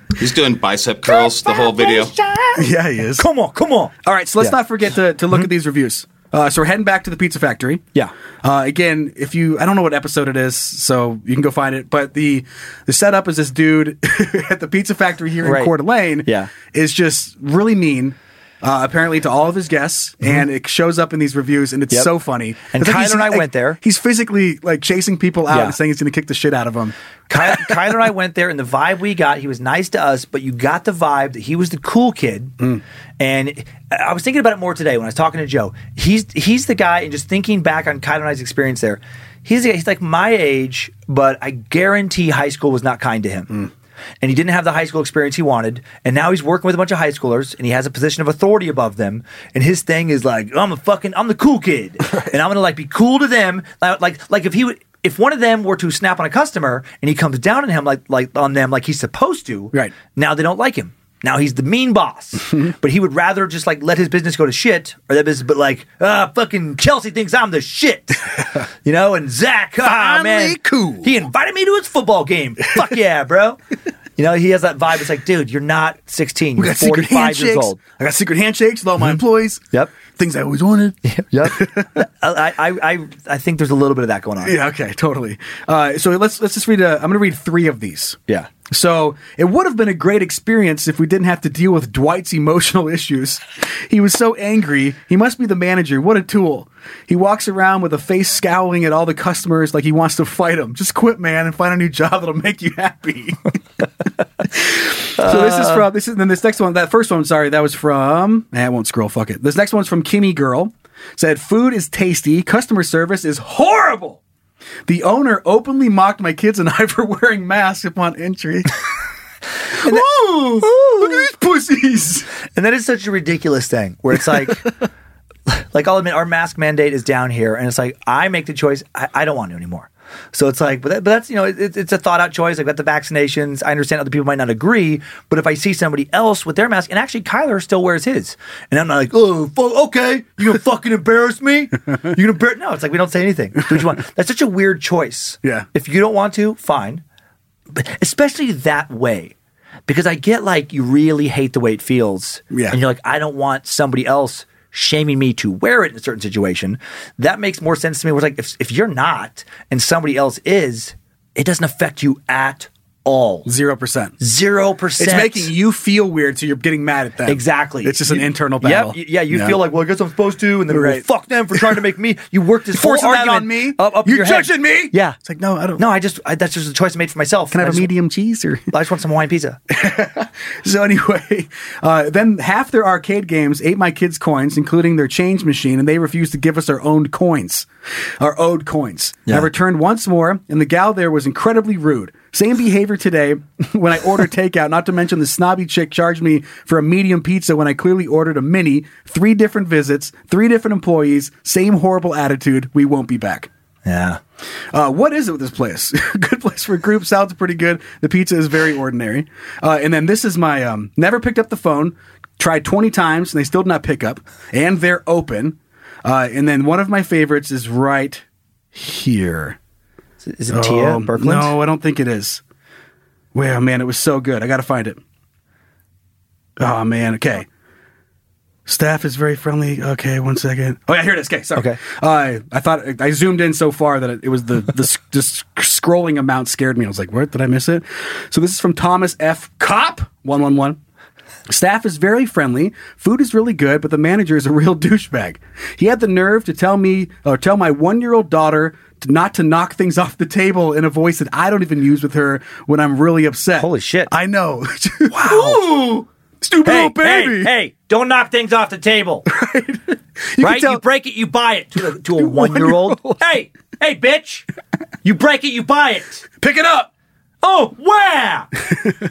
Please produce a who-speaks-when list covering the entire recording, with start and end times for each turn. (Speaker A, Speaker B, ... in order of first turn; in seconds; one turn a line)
Speaker A: 0.1-2.1
Speaker B: 1.2-2.6
Speaker C: 2.5-3.3
Speaker B: 3.1-4.6
Speaker C: 4.0-7.8
Speaker C: 8.4-26.9
Speaker B: 15.4-16.5
Speaker B: 22.7-23.8
Speaker B: 25.5-25.8
Speaker B: 27.3-32.5
Speaker B: 33.2-43.6
Speaker B: 44.2-73.6
Speaker C: 52.1-52.3
Speaker C: 69.8-71.1
Speaker B: 74.2-77.8
Speaker C: 76.6-81.9
Speaker B: 81.0-84.5
Speaker C: 84.4-103.6
Speaker C: 104.5-114.2
Speaker B: 105.2-105.8
Speaker C: 114.8-118.8
Speaker C: 119.8-122.3
Speaker B: 120.6-121.3
Speaker B: 122.5-124.7
Speaker B: 125.5-147.0
Speaker B: 147.7-149.3
Speaker B: 149.9-163.5
Speaker C: 152.5-152.8
Speaker C: 163.4-164.2
Speaker B: 164.2-165.5
Speaker C: 165.0-169.6
Speaker B: 167.2-175.2
Speaker C: 170.7-171.8
Speaker C: 172.7-175.8
Speaker B: 175.8-177.9
Speaker C: 177.5-178.7
Speaker B: 178.7-179.6
Speaker C: 179.7-187.7
Speaker C: 188.2-203.5
Speaker B: 203.8-204.2
Speaker C: 204.7-219.6
Speaker B: 220.2-221.6
Speaker C: 220.5-222.4
Speaker C: 223.3-225.0
Speaker C: 226.6-227.5
Speaker C: 228.7-240.8
Speaker B: 231.5-231.8
Speaker C: 241.5-257.5
Speaker B: 253.6-254.1
Speaker B: 255.1-255.7
Speaker B: 256.6-259.3
Speaker C: 259.2-260.8
Speaker B: 260.4-264.4
Speaker C: 262.1-263.2
Speaker B: 265.0-266.3
Speaker C: 266.4-266.9
Speaker B: 267.4-268.5